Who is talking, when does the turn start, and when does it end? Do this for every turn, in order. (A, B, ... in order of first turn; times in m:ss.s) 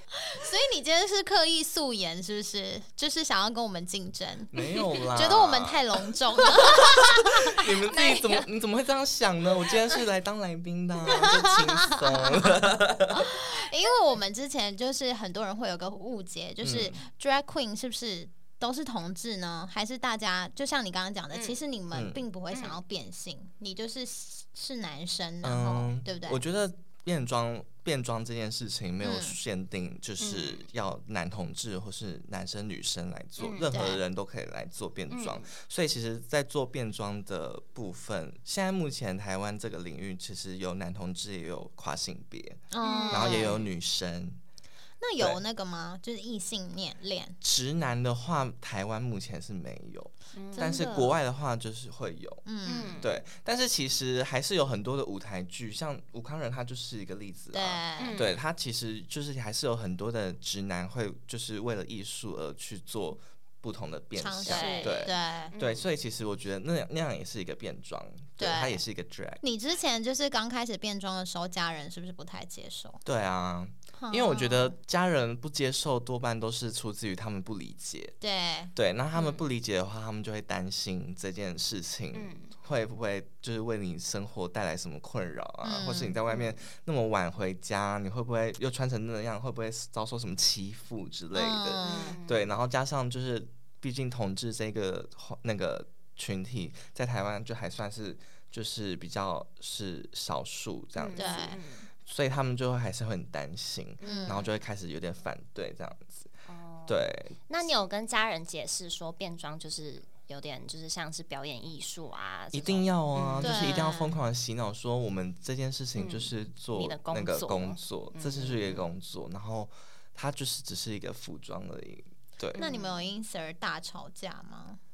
0:00.3-0:04.6 A
0:04.5-0:05.8 B
0:05.1-0:07.6 A
0:06.6-0:13.3 B
0:07.9-0:08.4 C
0:11.1-0:26.4 A
0:16.6-0:17.0 B
0:21.3-0:21.6 C
0:21.9-0:22.2 B
0:22.5-0:22.8 C
0:25.4-0:44.4 B
0:29.0-0:29.4 A
0:30.2-0:30.6 C
0:33.4-0:33.7 C
0:33.7-0:34.0 A
0:35.1-0:35.4 C
0:42.7-0:43.6 A
0:42.8-0:43.6 C
0:45.0-0:47.4 A
0:47.4-0:52.4 B
0:50.3-0:50.7 C
0:50.6-0:51.2 A
0:52.4-0:53.0 A
0:52.6-0:53.1 C
0:53.0-1:09.4 B
0:57.5-0:58.2 A
0:58.0-0:58.4 C
1:04.2-1:05.5 A
1:04.4-1:05.8 C
1:08.4-1:08.8 A
1:09.4-1:13.0 A
1:13.0-1:18.2 B
1:14.0-1:14.7 A
1:18.2-1:18.7 A
1:18.7-1:46.3 B
1:19.1-1:19.4 C
1:22.1-1:22.5 C
1:25.6-1:26.2 A
1:26.3-1:26.6 C
1:31.3-1:32.2 A
1:31.8-1:32.5 C
1:41.0-1:41.9 C
1:41.2-1:41.6 A
1:44.0-1:44.5 C
1:44.0-1:44.4 A
1:46.4-1:54.0 C
1:46.9-1:47.4 B
1:52.5-2:02.6 B
1:53.4-1:54.1 A
1:56.0-1:58.8 C
2:02.6-2:03.1 C
2:02.6-2:04.8 A